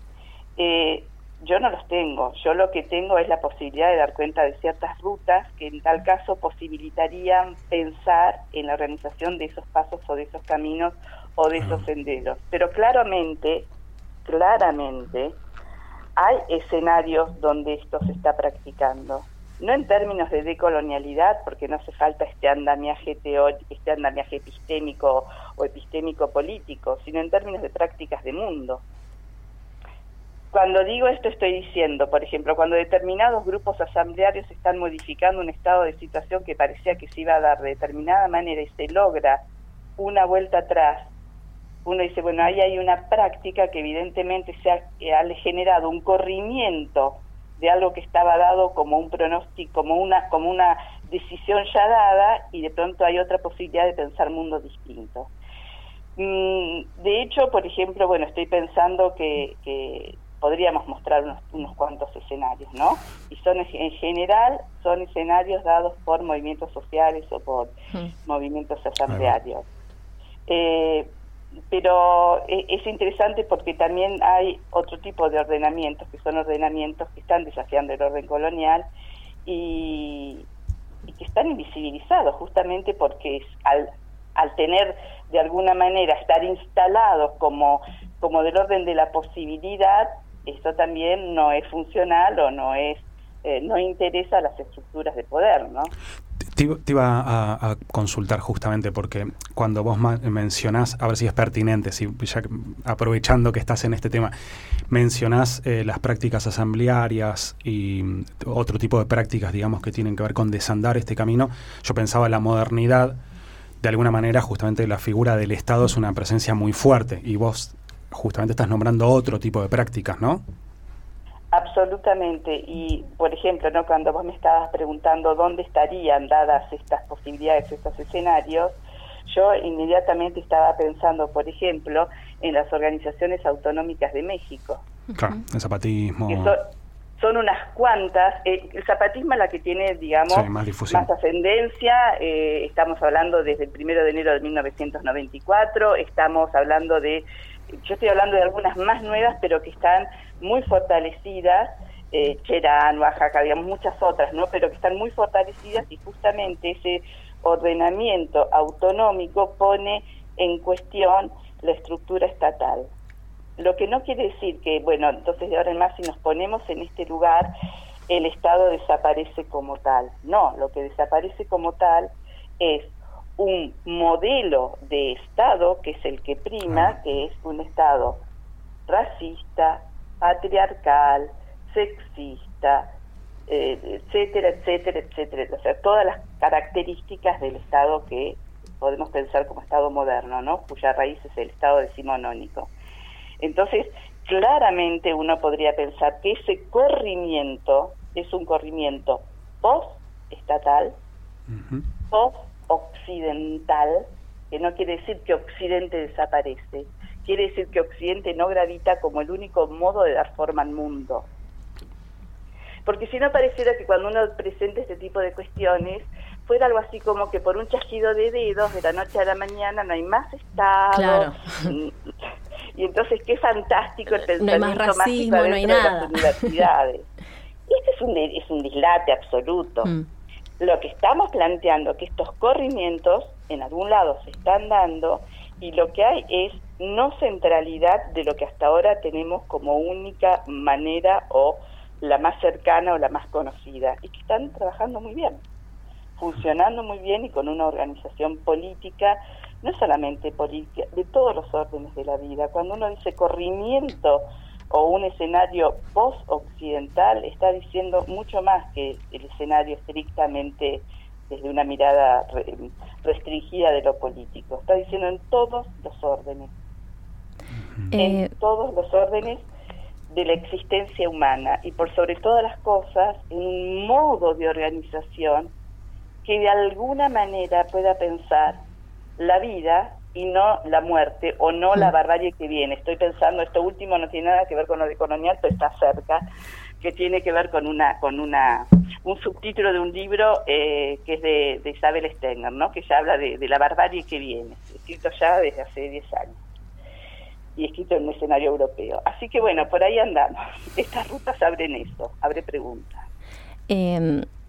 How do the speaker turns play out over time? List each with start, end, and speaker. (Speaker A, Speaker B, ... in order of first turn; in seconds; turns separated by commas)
Speaker A: 0.6-13.7, Speaker A: 14.2-15.4, Speaker A: 16.2-28.8, Speaker A: 30.5-39.4, Speaker A: 40.0-41.1, Speaker A: 41.9-55.3, Speaker A: 56.2-67.7, Speaker A: 68.2-69.7, Speaker A: 70.5-71.1, Speaker A: 71.7-78.9, Speaker A: 79.5-80.5, Speaker A: 81.1-95.9, Speaker B: 96.5-104.3, Speaker B: 104.9-113.2, Speaker B: 113.8-120.4, Speaker A: 121.5-134.8, Speaker B: 135.2-136.6, Speaker A: 136.3-136.7, Speaker A: 137.2-162.9, Speaker B: 140.3-141.1, Speaker A: 163.6-167.5, Speaker A: 168.1-178.2, Speaker A: 178.9-182.9, Speaker A: 183.5-192.7, Speaker A: 193.4-201.0, Speaker B: 201.5-201.9, Speaker A: 202.1-211.3, Speaker A: 212.8-221.9, Speaker C: 220.9-221.7, Speaker A: 222.7-227.1, Speaker C: 224.1-226.5, Speaker A: 227.7-229.9, Speaker A: 230.6-245.4, Speaker A: 246.2-266.5, Speaker C: 267.9-268.3, Speaker A: 268.0-269.5, Speaker A: 270.1-275.5, Speaker A: 276.2-278.6, Speaker A: 279.2-286.2, Speaker A: 286.8-296.4, Speaker A: 297.6-303.0, Speaker C: 303.7-304.3